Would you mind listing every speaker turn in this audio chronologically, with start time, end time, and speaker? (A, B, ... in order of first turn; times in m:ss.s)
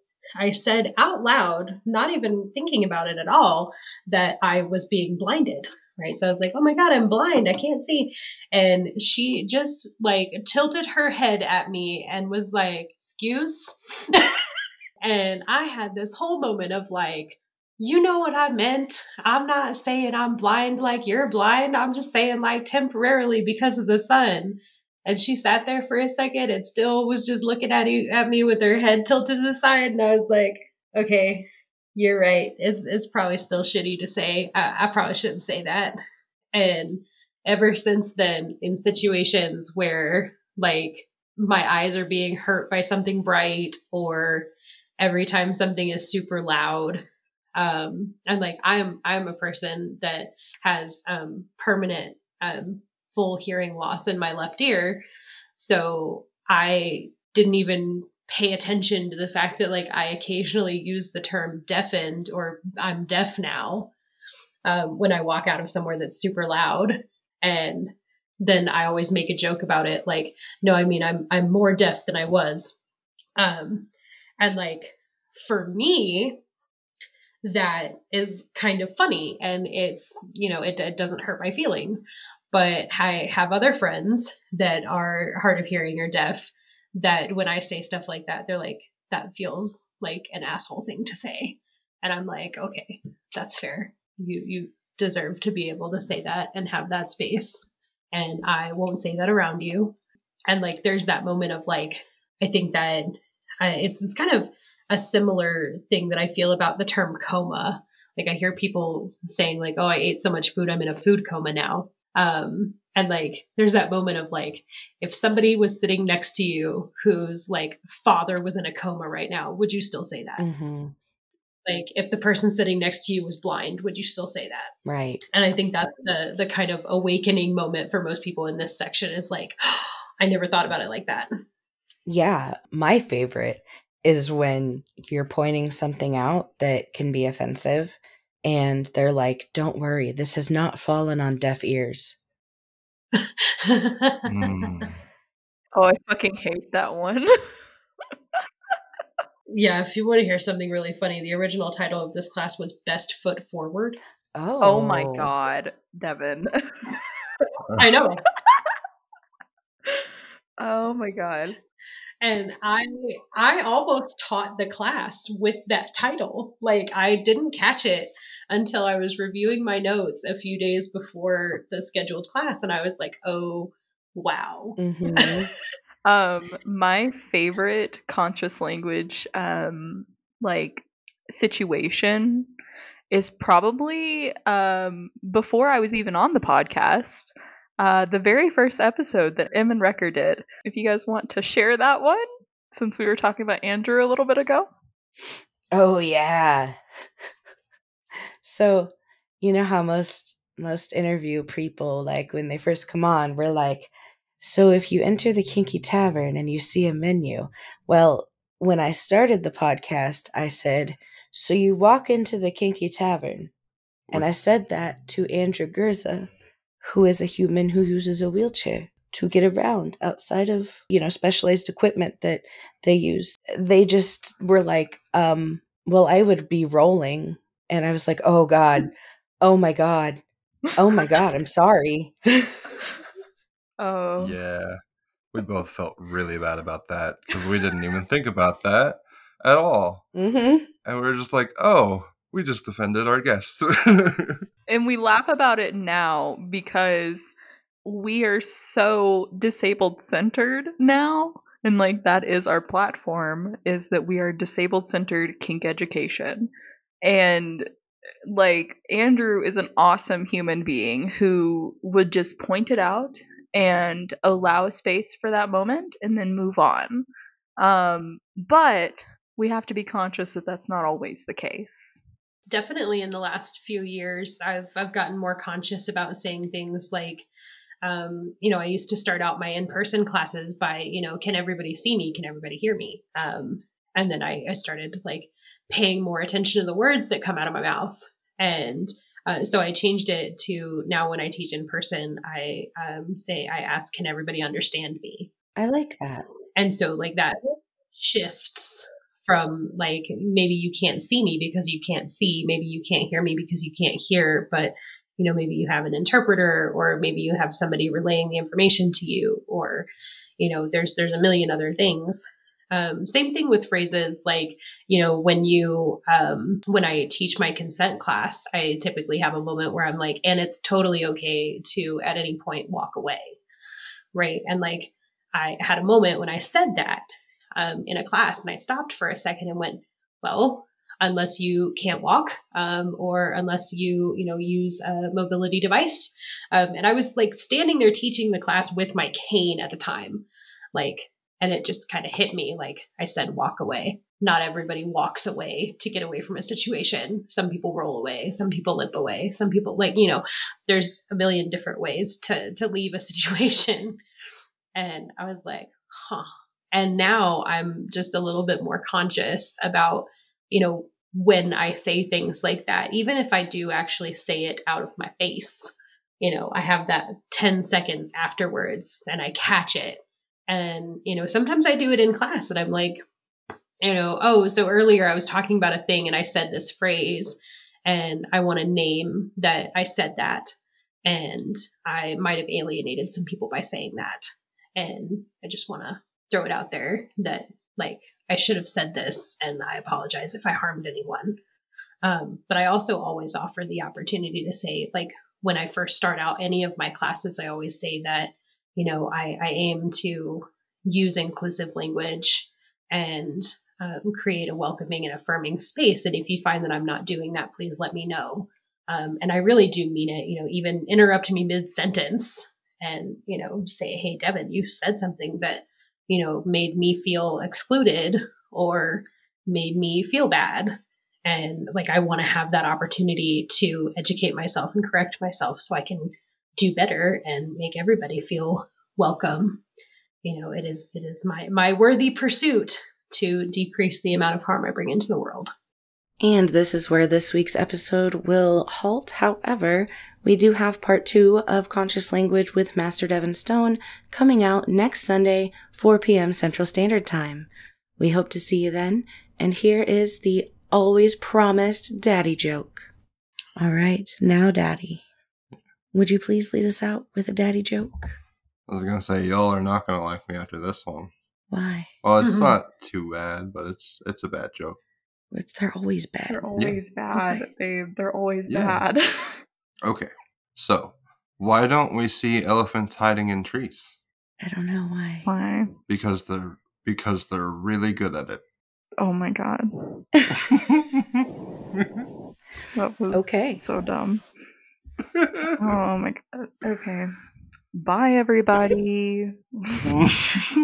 0:00.4-0:14.2 A
0:15.0-0:36.0 A
0:36.5-0:44.5 A
0:45.0-0:47.0 A
0:47.6-0:55.0 A
0:55.6-1:03.9 A
1:04.6-1:12.8 A
1:13.4-1:13.9 A
1:14.4-1:16.4 A
1:17.4-1:39.9 A
1:40.5-2:00.4 A
2:00.4-2:00.9 B
2:01.6-2:04.7 A
2:04.8-2:05.2 B
2:05.3-2:11.3 A
2:12.0-2:22.2 B
2:23.1-2:24.2 A
2:24.2-2:25.0 C
2:25.7-2:27.3 D
2:29.5-2:34.0 A
2:34.4-2:35.3 B
2:34.6-2:37.0 D
2:37.8-2:38.2 A
2:38.4-2:38.7 D
2:40.6-2:41.6 D
2:42.2-2:54.8 A
2:54.8-2:55.5 B
2:56.0-3:02.5 D
3:03.1-3:14.7 D
3:15.7-3:16.8 B
3:18.4-3:33.5 B
3:34.1-3:36.3 B
3:36.8-3:50.2 B
3:50.8-3:52.8 B
3:53.8-3:54.4 D
3:54.2-3:54.8 C
3:55.3-4:00.1 C
4:00.1-4:00.7 B
4:00.8-4:04.4 C
4:04.7-4:16.5 D
4:17.0-4:17.7 D
4:18.3-4:27.1 D
4:27.6-4:32.0 D
4:32.5-4:37.3 A
4:37.8-4:55.3 A
4:55.6-4:56.2 B
4:56.6-4:57.4 A
4:57.9-5:09.9 A
5:10.4-5:23.4 A
5:24.1-5:27.0 A
5:27.6-5:54.0 A
5:54.7-6:13.0 A
6:13.8-6:20.5 A
6:21.0-6:31.4 A
6:32.0-7:00.7 A
7:01.2-7:09.6 A
7:10.2-7:15.5 A
7:16.2-7:32.9 B
7:33.6-7:35.0 B
7:35.9-7:38.1 B
7:38.7-7:41.1 C
7:41.5-7:41.9 B
7:42.0-7:44.8 C
7:42.2-7:42.6 A
7:45.3-7:46.5 B
7:46.3-7:49.4 D
7:47.1-7:47.4 B
7:48.5-7:48.8 C
7:49.8-7:53.9 C
7:54.4-7:55.3 B
7:55.2-7:55.7 D
7:55.9-7:58.4 C
7:59.0-8:00.0 D
8:00.3-8:01.2 C
8:01.8-8:02.0 C
8:02.7-8:04.2 D
8:03.1-8:03.6 B
8:05.2-8:05.8 C
8:05.6-8:07.1 D
8:07.7-8:09.9 D
8:09.9-8:10.5 C